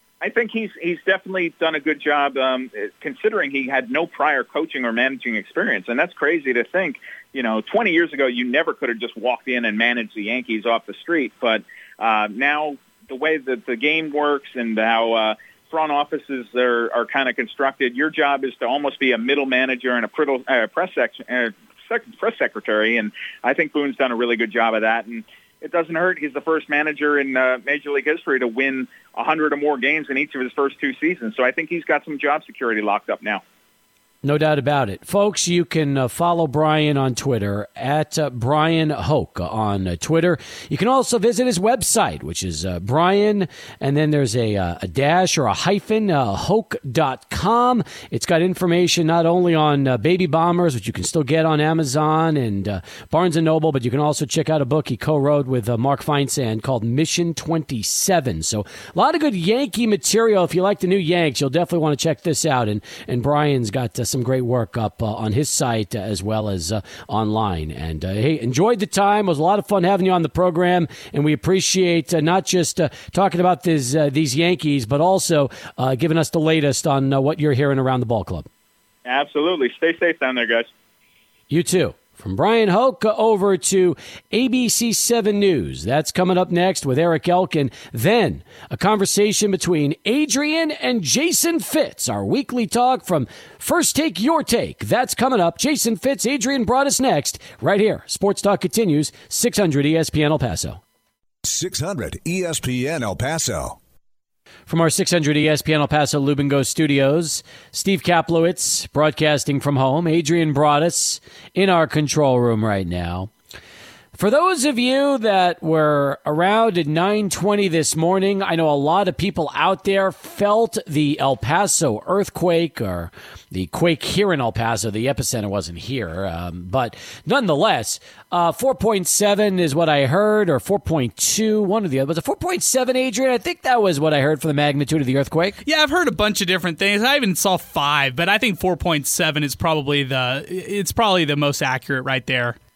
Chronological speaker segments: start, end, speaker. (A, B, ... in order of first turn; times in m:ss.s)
0:00.2-0:33.4 A
0:34.2-1:18.5 B
1:19.1-1:20.7 A
1:21.5-1:40.8 B
1:41.4-1:43.8 C
1:44.7-1:53.3 B
1:54.2-2:15.6 B
2:15.7-2:22.6 D